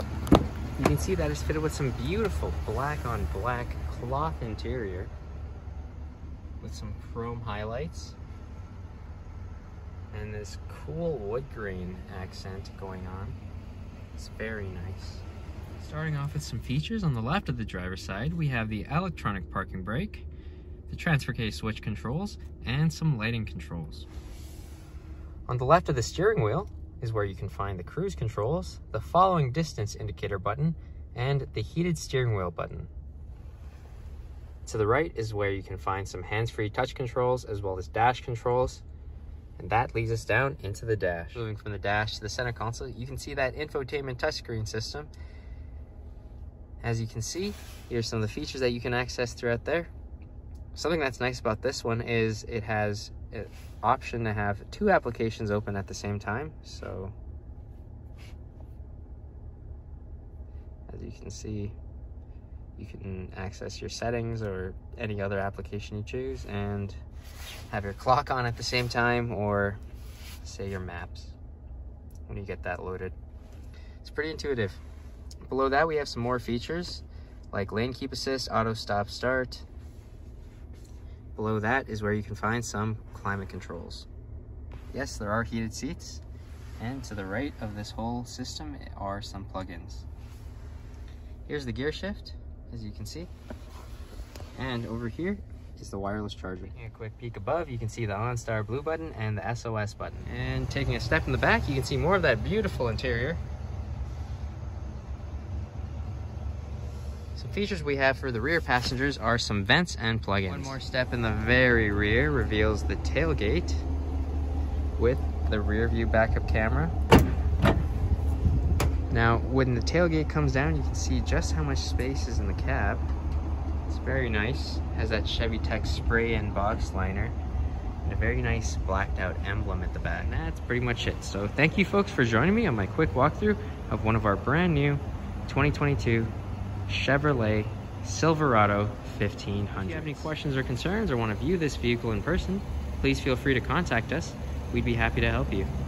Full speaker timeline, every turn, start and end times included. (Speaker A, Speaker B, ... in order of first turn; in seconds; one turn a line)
Speaker A: 0.8-5.1
Speaker A: 6.6-8.2
Speaker A: 10.1-13.4
Speaker A: 14.2-15.2
Speaker A: 15.8-20.3
Speaker A: 20.9-24.1
Speaker A: 25.5-32.9
Speaker A: 34.6-38.8
Speaker A: 39.6-45.1
Speaker A: 46.8-49.9
Speaker A: 50.7-57.1
Speaker A: 60.9-61.8
Speaker A: 62.8-67.0
Speaker A: 67.7-69.8
Speaker A: 70.4-71.4
Speaker A: 72.3-73.2
Speaker A: 74.0-74.8
Speaker A: 75.4-79.7
Speaker A: 81.3-84.1
Speaker A: 84.9-86.2
Speaker A: 86.8-90.0
Speaker A: 91.5-93.3
Speaker A: 94.5-103.4
Speaker A: 107.4-113.9
Speaker A: 115.0-116.9
Speaker A: 119.1-123.1
Speaker A: 123.9-127.3
Speaker A: 128.0-136.3
Speaker A: 136.9-145.7